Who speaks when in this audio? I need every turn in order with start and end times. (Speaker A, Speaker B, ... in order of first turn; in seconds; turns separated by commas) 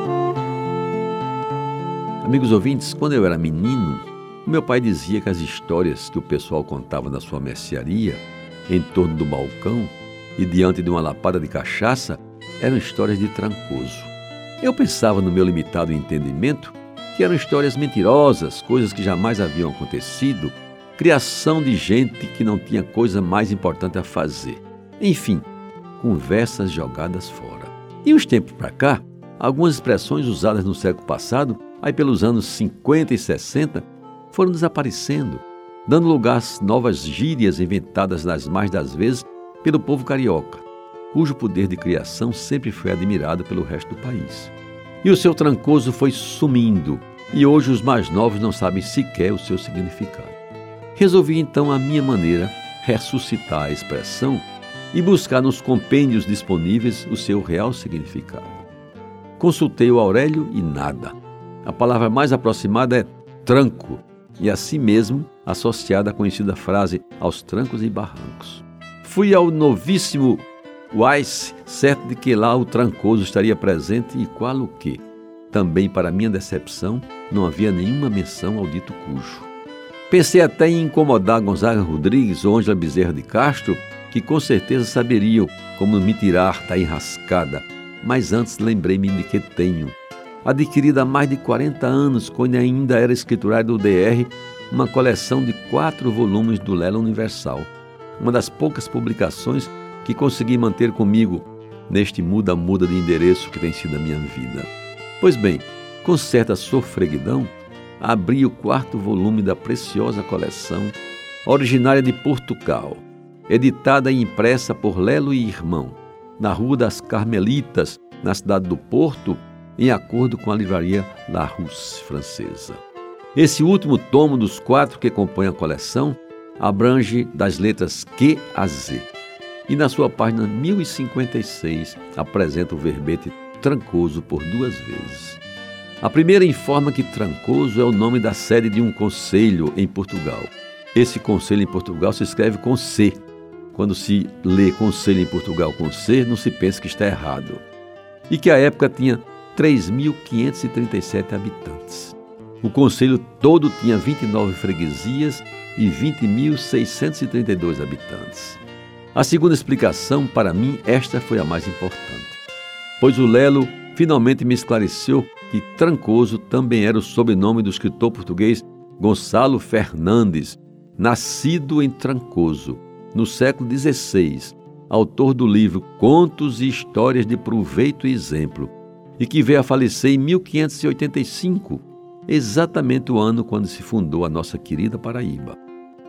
Speaker A: 2.2-25.4, Speaker A: 26.0-50.4, Speaker A: 50.9-58.6, Speaker A: 59.4-79.5, Speaker A: 80.1-104.7, Speaker A: 105.2-122.8, Speaker A: 123.3-129.1, Speaker A: 129.7-135.4, Speaker A: 136.0-143.2, Speaker A: 143.7-147.6, Speaker A: 148.3-158.6, Speaker A: 159.1-162.4, Speaker A: 163.0-185.6